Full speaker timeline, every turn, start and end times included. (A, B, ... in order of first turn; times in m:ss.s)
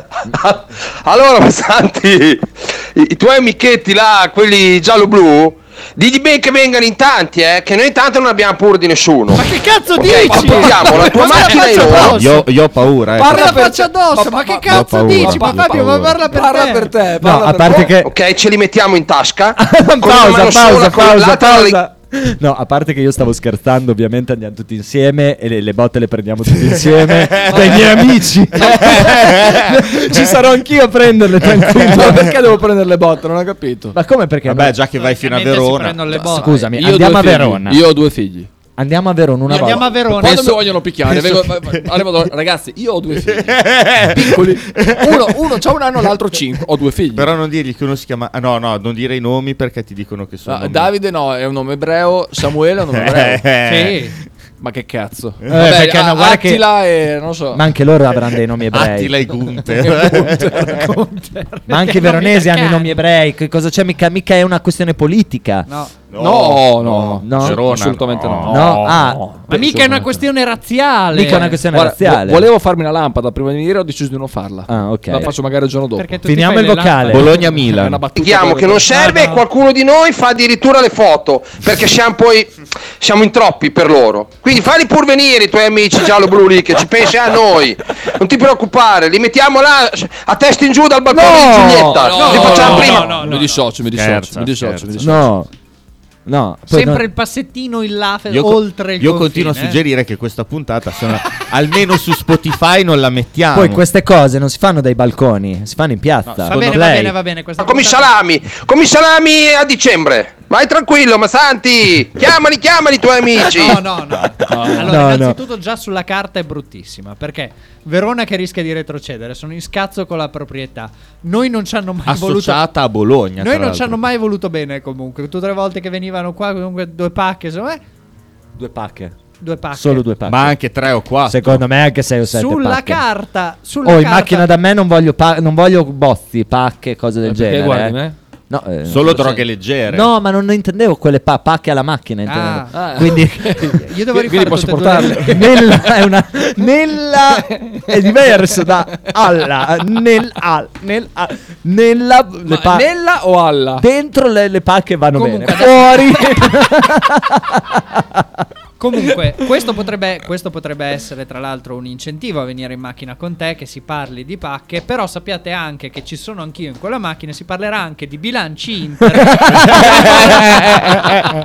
0:00.2-0:09.4 A
0:09.3-0:12.4 B
0:09.9-0:12.2 A
0:10.1-0:12.2 C
0:11.9-0:13.6 D
0:13.1-0:17.9 C
0:13.2-0:16.9 B
0:14.7-0:16.2 D
0:17.2-0:18.1 E
0:17.8-0:21.8 A
0:19.6-0:32.4 E
0:27.0-0:27.8 D
0:28.6-0:30.2 D
0:31.6-0:32.2 D
0:31.8-0:34.0 C
0:33.9-0:34.8 E
0:34.5-0:36.2 D
0:35.0-0:36.7 B
0:36.2-0:37.8 E
0:36.6-0:38.5 C
0:38.8-0:40.6 E
0:39.5-0:40.5 B
0:39.5-0:47.3 C
0:43.2-0:45.4 D
0:47.1-0:50.9 D
0:50.4-0:53.5 C
0:52.9-0:54.0 D
0:53.6-0:54.2 B
0:54.6-0:57.7 C
0:55.5-0:55.7 D
0:55.5-0:56.7 E
0:57.5-0:59.1 E
0:58.7-1:00.8 D
0:59.8-1:00.9 C
1:00.5-1:02.9 B
1:01.7-1:05.7 E
1:05.7-1:05.9 B
1:06.1-1:08.9 D
1:06.1-1:10.2 C
1:07.2-1:07.6 E
1:08.4-1:09.2 E
1:09.5-1:11.6 B
1:11.1-1:12.5 E
1:11.7-1:16.2 C
1:14.7-1:15.3 E
1:16.0-1:17.4 B
1:16.2-1:17.3 E
1:17.1-1:18.1 D
1:17.3-1:18.9 C
1:18.1-1:33.1 A
1:18.9-1:19.4 B
1:31.1-1:32.4 E
1:31.9-1:35.2 C
1:32.1-1:33.6 B
1:33.9-1:35.1 D
1:35.0-1:35.5 E
1:36.2-1:37.0 E
1:36.7-1:39.8 B
1:38.3-1:43.8 D
1:43.5-1:47.1 E
1:46.3-1:46.8 D
1:46.5-1:48.1 B
1:47.6-1:53.8 A
1:53.4-2:02.6 B
1:54.5-1:54.9 C
1:54.5-1:55.4 E
2:02.1-2:04.0 D
2:03.4-2:07.8 B
2:08.6-2:09.1 E
2:09.4-2:10.1 B
2:09.7-2:10.6 E
2:10.2-2:11.6 D
2:11.3-2:13.0 E
2:12.3-2:14.5 B
2:13.8-2:18.0 E
2:17.2-2:18.2 C
2:18.5-2:23.8 E
2:18.8-2:20.1 D
2:22.2-2:22.8 B
2:22.7-2:25.6 C
2:23.8-2:25.5 B
2:25.2-2:32.9 E
2:32.4-2:33.8 C
2:33.8-2:38.4 E
2:35.1-2:36.5 B
2:38.8-2:51.1 B
2:49.3-2:51.0 E